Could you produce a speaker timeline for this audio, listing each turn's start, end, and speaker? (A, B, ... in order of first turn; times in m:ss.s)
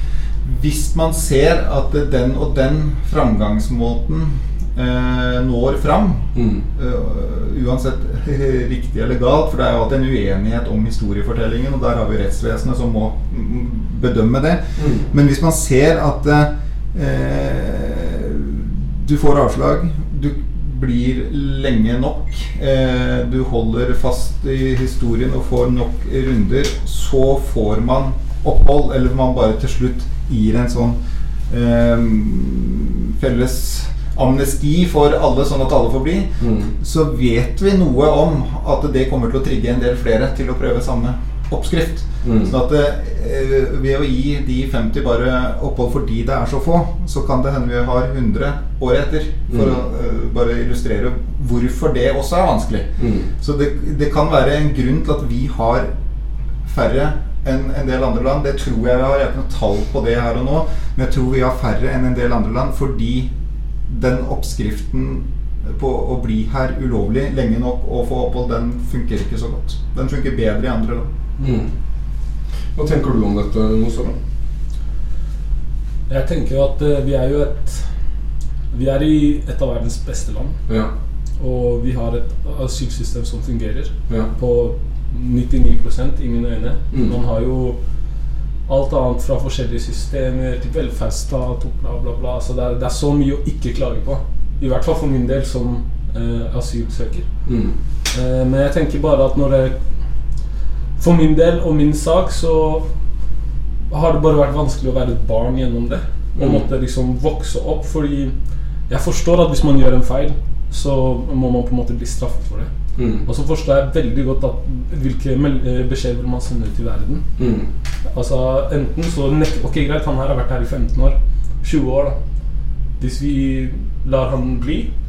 0:00.4-0:31.0 A
0:06.3-0:06.6 B
0:14.8-0:15.1 B
0:31.5-0:52.9 A
0:36.4-0:36.7 B
0:42.2-0:42.5 B
0:49.5-0:49.8 B
0:53.0-0:53.3 B
0:53.4-0:55.9 A
0:56.6-1:03.3 A
1:03.9-1:11.1 A
1:11.4-1:11.7 B
1:12.7-1:14.2 B
1:16.1-1:17.9 C
1:18.7-1:20.6 C
1:21.4-1:27.8 C
1:28.7-1:37.2 C
1:37.4-1:37.7 B
1:38.1-1:39.8 C
1:41.0-1:42.8 C
1:43.9-1:48.3 C
1:46.4-1:46.6 B
1:48.9-1:52.7 C
1:53.0-1:53.2 B
1:53.2-1:57.2 C
1:57.4-1:57.7 B
1:58.1-2:02.2 C
2:03.0-2:04.9 C